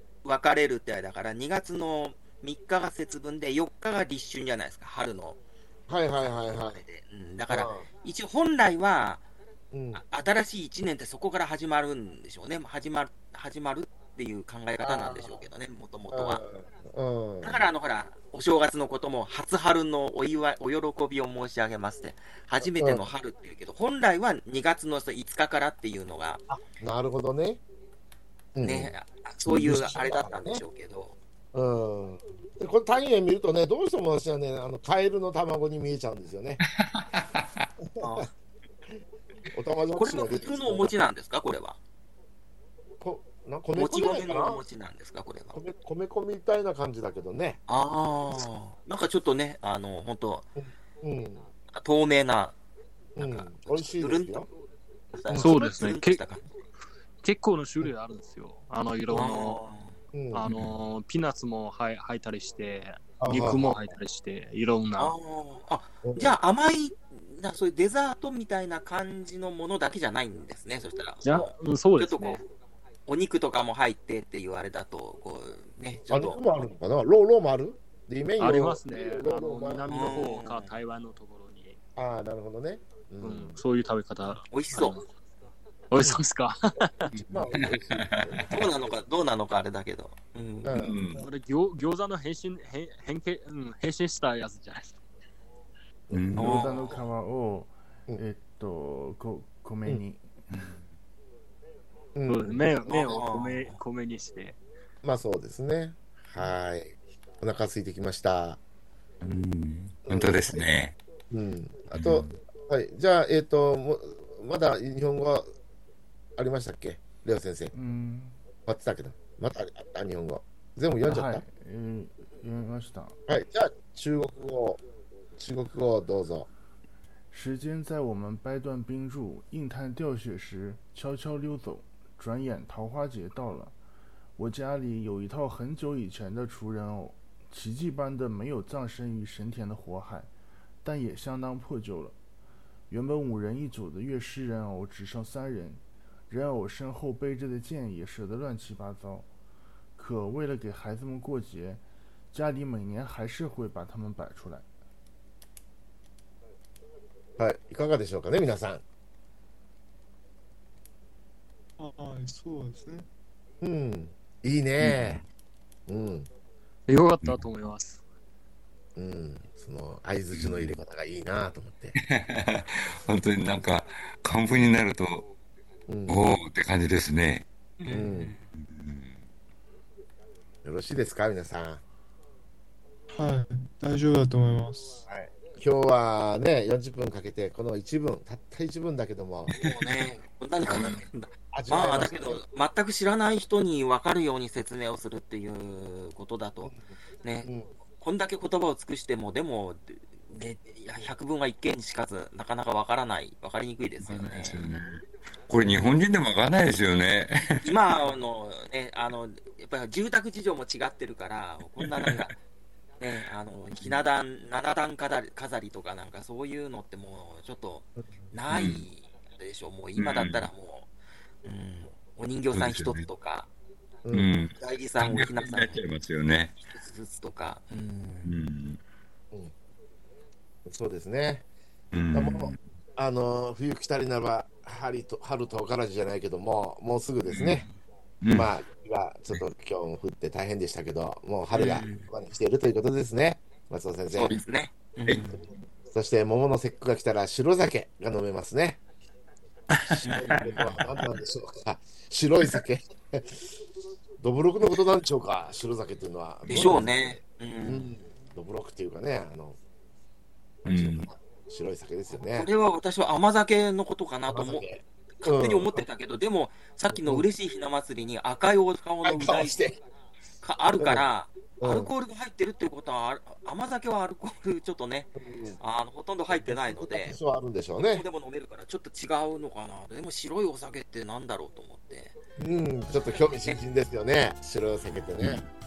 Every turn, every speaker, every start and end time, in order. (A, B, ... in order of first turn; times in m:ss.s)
0:00.2-0:05.4 A
0:05.9-0:06.8 B
0:06.7-0:09.2 A
0:07.5-0:07.9 B
0:09.7-0:10.0 B
0:09.9-0:16.4 A
0:14.8-0:15.4 B
0:16.1-0:17.6 B
0:17.4-0:26.4 A
0:22.6-0:23.1 B
0:26.5-0:27.6 B
0:28.5-0:29.0 B
0:28.6-0:31.2 A
0:29.5-0:30.6 B
0:31.5-0:36.6 B
0:36.8-0:37.6 C
0:38.0-0:38.2 B
0:38.0-0:38.3 A
0:39.5-0:40.9 B
0:39.9-0:41.8 A
0:43.0-0:44.6 B
0:43.7-0:45.6 A
0:45.5-0:47.6 B
0:47.7-0:50.5 A
0:50.6-0:51.5 B
0:51.7-0:52.6 A
0:53.2-0:54.5 B
0:53.2-0:54.5 A
0:55.1-0:56.4 A
0:55.3-0:55.5 B
0:55.3-0:56.2 D
0:57.2-0:59.6 D
0:59.1-1:00.0 A
1:00.1-1:00.5 B
1:00.3-1:05.1 D
1:03.2-1:03.9 B
1:05.0-1:12.4 A
1:06.0-1:06.4 B
1:11.2-1:12.4 D
1:13.1-1:16.4 A
1:16.1-1:20.4 B
1:18.4-1:21.8 D
1:19.9-1:20.7 A
1:22.0-1:23.6 B
1:23.2-1:25.0 D
1:24.5-1:25.0 A
1:25.9-1:27.1 D
1:27.0-1:29.0 B
1:27.3-1:28.5 C
1:28.5-1:30.7 A
1:30.6-1:31.0 B
1:30.7-1:31.2 C
1:31.1-1:35.0 D
1:36.1-1:36.5 B
1:36.1-1:36.6 C
1:36.3-1:37.0 A
1:36.4-1:40.2 E
1:40.5-1:40.8 C
1:42.2-1:43.3 B
1:42.3-1:44.6 D
1:42.9-1:43.8 A
1:45.0-1:48.6 B
1:49.2-1:50.9 C
1:50.1-1:50.6 B
1:51.3-1:55.5 B
1:51.9-1:52.4 C
1:56.4-1:57.7 B
1:57.7-1:58.4 E
1:58.7-2:01.4 B
2:01.0-2:03.2 E
2:03.3-2:04.8 B
2:05.4-2:06.5 B
2:07.3-2:13.8 E
2:14.4-2:20.3 E
2:20.8-2:22.2 E
2:22.9-2:29.3 E
2:30.0-2:34.6 E
2:37.4-2:38.8 B
2:41.8-2:43.1 F
2:43.6-2:45.2 B
2:44.8-2:45.2 C
2:45.9-2:46.3 B
2:46.9-2:48.0 D
2:47.2-2:47.5 C
2:49.0-2:52.0 B
2:50.3-2:50.7 C
2:52.0-2:55.3 C
2:55.9-2:56.2 B
2:56.1-2:57.4 C
2:57.8-2:58.4 A
2:57.9-2:58.3 B
2:58.5-2:59.1 C
3:00.6-3:01.8 B
3:03.1-3:05.0 F
3:05.1-3:09.6 B
3:09.5-3:24.6 A
3:10.6-3:11.0 B
3:11.5-3:12.4 B
3:17.4-3:17.7 B
3:24.0-3:27.4 C
3:27.6-3:32.4 A
3:31.8-3:32.3 C
3:33.0-3:40.9 A
3:38.5-3:38.8 C
3:40.0-3:40.5 C
3:41.4-3:43.5 A
3:42.5-3:43.0 C
3:44.1-3:46.6 C
3:44.6-3:45.8 A
3:46.6-3:48.3 A
3:48.2-3:48.8 C
3:50.6-3:51.4 B
3:51.9-3:52.6 C
3:52.1-3:57.6 B
3:57.4-3:57.7 A
3:58.2-3:58.5 C
3:58.3-4:04.4 B
4:01.5-4:02.1 A
4:04.2-4:05.4 A
4:05.1-4:05.4 C
4:05.9-4:08.8 B
4:09.7-4:10.0 C
4:09.8-4:13.4 B
4:10.0-4:10.8 A
4:14.2-4:19.6 B
4:16.4-4:17.9 A
4:20.6-4:22.5 B
4:20.6-4:21.1 C
4:22.3-4:29.7 A
4:24.3-4:25.8 B
4:26.9-4:27.2 B
4:29.0-4:29.8 B
4:30.4-4:37.2 A
4:30.8-4:31.1 B
4:31.6-4:31.9 B
4:35.2-4:35.6 B
4:36.3-4:38.0 B
4:37.8-4:42.2 A
4:42.4-4:45.4 B
4:45.2-4:45.5 C